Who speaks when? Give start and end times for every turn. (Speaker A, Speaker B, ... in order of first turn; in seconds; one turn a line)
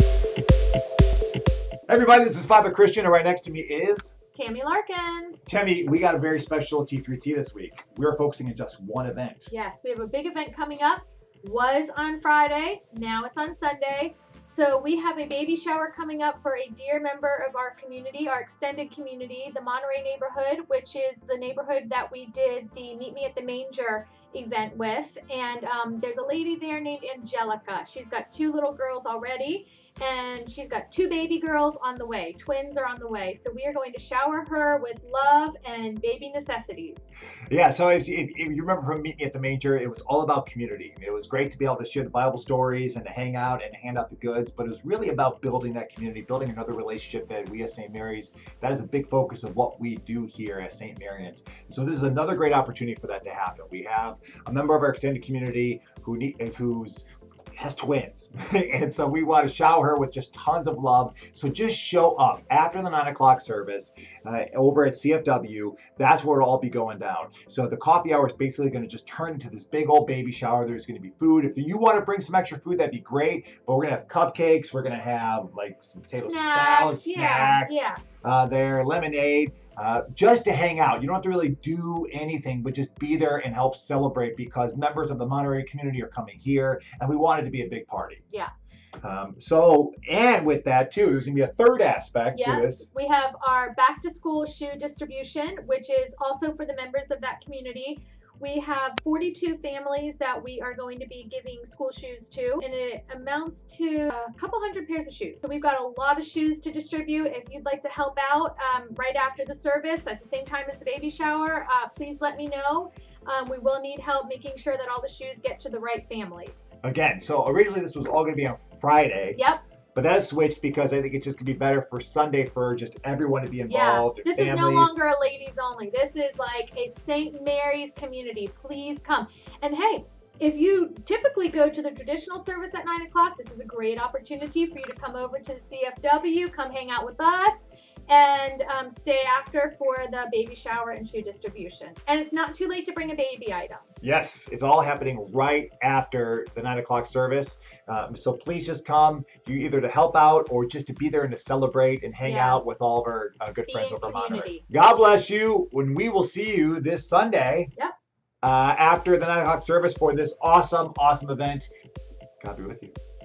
Speaker A: 1.9-4.1
Speaker B: 4.3-5.4
Speaker A: 5.5-9.5
Speaker B: 9.5-37.1
Speaker A: 37.5-88.2
Speaker B: 76.1-78.0
Speaker A: 89.0-92.9
Speaker B: 92.3-116.7
Speaker A: 116.8-119.4
Speaker B: 119.3-119.6
Speaker A: 119.9-125.0
Speaker B: 123.7-143.9
Speaker A: 144.0-157.7
Speaker B: 152.2-152.6
Speaker B: 153.7-154.7
Speaker A: 158.4-161.7
Speaker A: 162.4-162.9